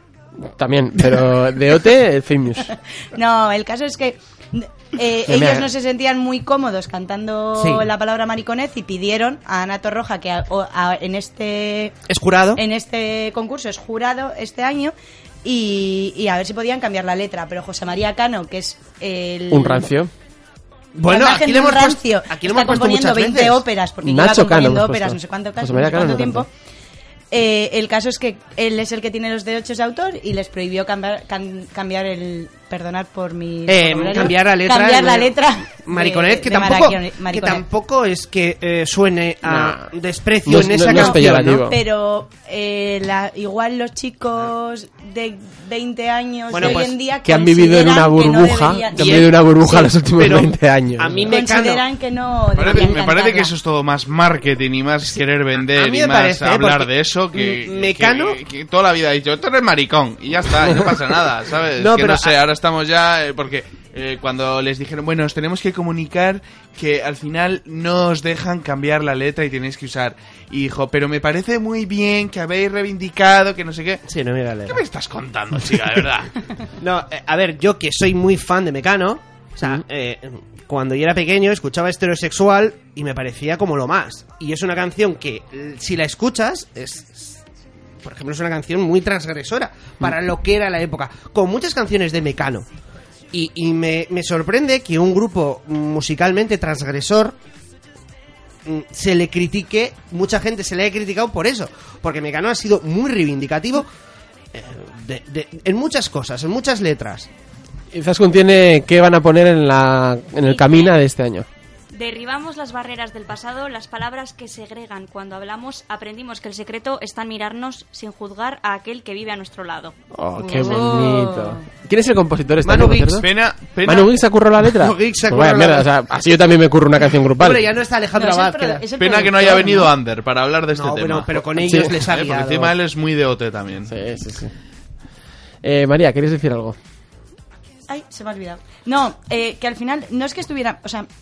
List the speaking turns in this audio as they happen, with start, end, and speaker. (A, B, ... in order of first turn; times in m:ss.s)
0:00.4-0:02.7 A
0:03.1-0:12.0 B
0:05.3-0:05.7 A
0:07.6-0:07.9 C
0:12.1-0:12.6 C
0:12.6-0:19.9 B
0:19.5-0:20.1 A
0:21.0-0:23.6 C
0:21.1-0:26.5 B
0:24.0-0:26.5 A
0:27.3-0:37.6 B
0:33.7-0:41.6 C
0:39.4-0:39.9 A
0:40.4-0:41.8 A
0:40.7-0:49.8 B
0:46.5-0:46.9 C
0:46.6-0:51.3 A
0:49.0-0:51.8 C
0:51.3-0:53.5 B
0:52.6-1:14.0 D
0:55.7-0:58.4 C
1:01.8-1:02.3 C
1:14.1-1:14.8 C
1:14.7-1:16.3 D
1:16.8-1:27.4 C
1:28.0-1:32.7 C
1:33.3-1:37.4 C
1:38.7-1:43.9 C
1:44.5-1:47.3 C
1:47.9-1:51.5 A
1:50.4-1:51.0 E
1:51.9-2:00.0 E
2:00.1-2:03.3 A
2:00.4-2:01.6 B
2:00.6-2:01.0 E
2:02.6-2:03.2 C
2:03.2-2:04.1 D
2:03.9-2:07.7 A
2:04.6-2:05.9 C
2:07.4-2:08.8 C
2:08.1-2:09.9 B
2:09.0-2:13.9 D
2:10.7-2:12.7 C
2:11.6-2:11.9 A
2:13.9-2:14.5 A
2:15.6-2:16.8 A
2:17.9-2:21.1 B